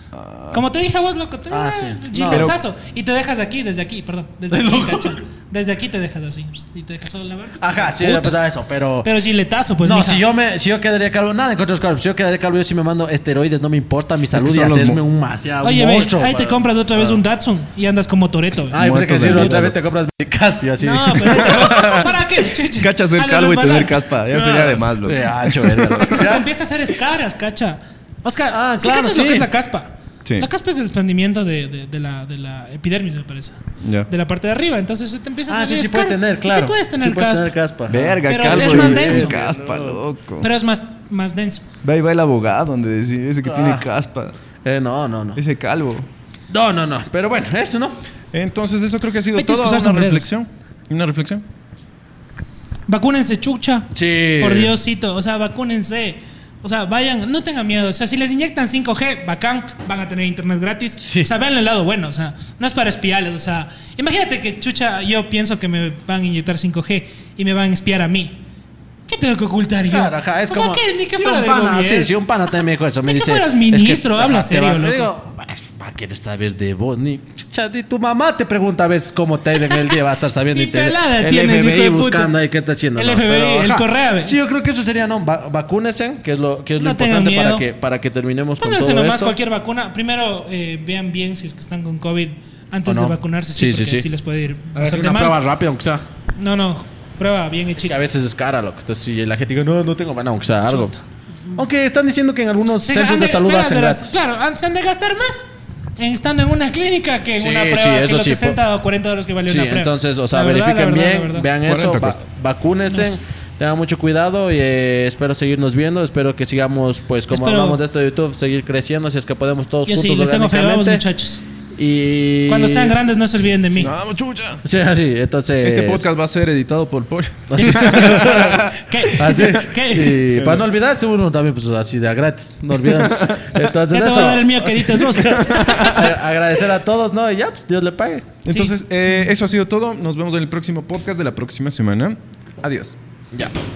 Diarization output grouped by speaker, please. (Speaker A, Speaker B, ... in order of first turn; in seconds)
Speaker A: 0.1-0.6, 2.3-2.6, 14.3-15.0, 18.7-19.8, 21.4-22.1, 22.8-26.2, 33.8-34.1, 37.9-40.5, 41.8-44.4, 45.4-46.1, 48.3-51.4, 111.7-112.2, 123.7-124.6, 125.6-129.5, 132.9-133.5, 135.2-136.0, 138.4-142.9
Speaker B: 0.5-8.4, 9.0-10.2, 15.6-18.8, 20.8-24.0, 26.0-37.5, 38.3-39.3, 40.4-41.6, 49.4-50.3, 52.9-68.4, 69.1-72.1, 73.0-75.1, 79.7-80.0, 80.5-82.3, 83.0-84.3, 86.8-87.6, 88.6-95.4, 96.3-98.0, 100.7-101.6, 102.8-111.5, 112.9-113.2, 117.3-117.8, 119.8-121.4, 122.5-123.9, 127.6-130.3, 133.9-136.0, 138.5-139.3
Speaker C: 1.5-2.5, 4.5-5.2, 7.6-9.1, 9.8-17.2, 18.7-22.1, 24.3-26.5, 28.5-29.5, 35.5-40.0, 43.4-43.9, 44.6-45.4, 46.5-48.0, 53.9-54.8, 61.0-61.3, 69.8-89.3, 92.8-94.1, 94.7-96.0, 97.8-100.9, 101.5-104.1, 107.3-108.6, 109.5-121.0, 121.8-123.0, 124.6-126.0, 127.5-138.4